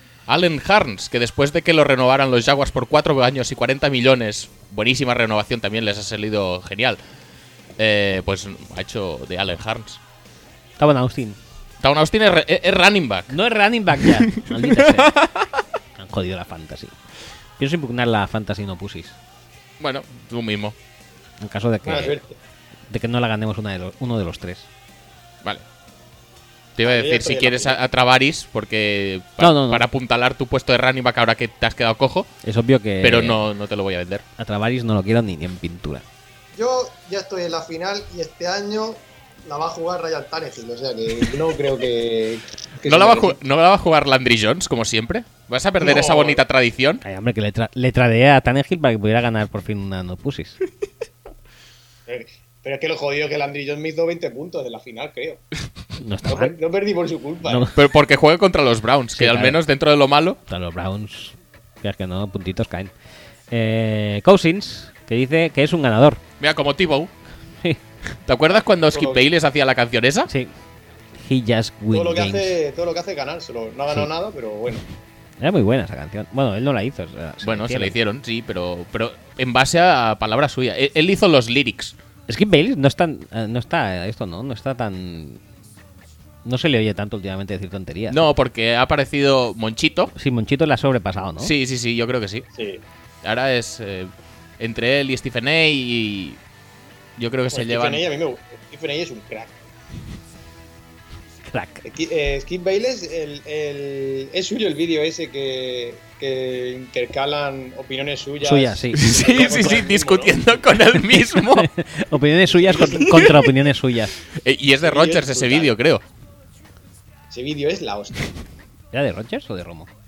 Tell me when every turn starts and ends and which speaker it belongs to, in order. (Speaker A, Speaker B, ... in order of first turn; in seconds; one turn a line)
Speaker A: 0.3-7.0
Speaker A: 7.8-10.0
Speaker B: 10.8-11.4
Speaker A: 11.8-13.3
Speaker B: 13.3-15.2
Speaker A: 14.0-15.5
Speaker B: 16.0-17.0
Speaker B: 17.6-19.2
Speaker A: 19.8-20.8
Speaker B: 21.4-22.2
Speaker C: 21.9-22.4
Speaker B: 22.9-24.7
Speaker A: 26.8-32.3
Speaker C: 26.8-27.8
Speaker B: 29.4-29.9
Speaker B: 32.4-33.4
Speaker A: 33.0-34.2
Speaker B: 34.4-36.0
Speaker C: 36.6-43.4
Speaker A: 42.8-47.0
Speaker C: 45.8-46.4
Speaker B: 47.0-50.6
Speaker C: 52.1-55.4
Speaker B: 56.0-56.5
Speaker C: 56.3-57.7
Speaker B: 57.5-57.8
Speaker A: 57.7-60.4
Speaker B: 59.1-59.6
Speaker B: 60.5-62.9
Speaker B: 63.5-66.2
Speaker A: 66.4-67.1
Speaker A: 68.3-70.3
Speaker C: 68.8-69.3
Speaker B: 71.2-72.6
Speaker C: 71.9-74.8
Speaker B: 75.4-78.0
Speaker A: 77.4-82.0
Speaker B: 82.3-85.4
Speaker B: 86.5-88.3
Speaker A: 88.1-90.1
Speaker B: 90.2-91.5
Speaker A: 91.4-92.5
Speaker C: 92.5-92.8
Speaker A: 93.2-96.4
Speaker A: 97.2-98.0
Speaker C: 97.5-99.6
Speaker B: 101.5-101.8
Speaker C: 101.9-110.4
Speaker B: 108.4-109.2
Speaker A: 109.0-111.7
Speaker B: 111.3-114.2
Speaker C: 112.6-113.4
Speaker A: 112.8-113.5
Speaker A: 114.3-116.0
Speaker C: 114.8-115.7
Speaker C: 117.3-118.2
Speaker B: 118.9-119.9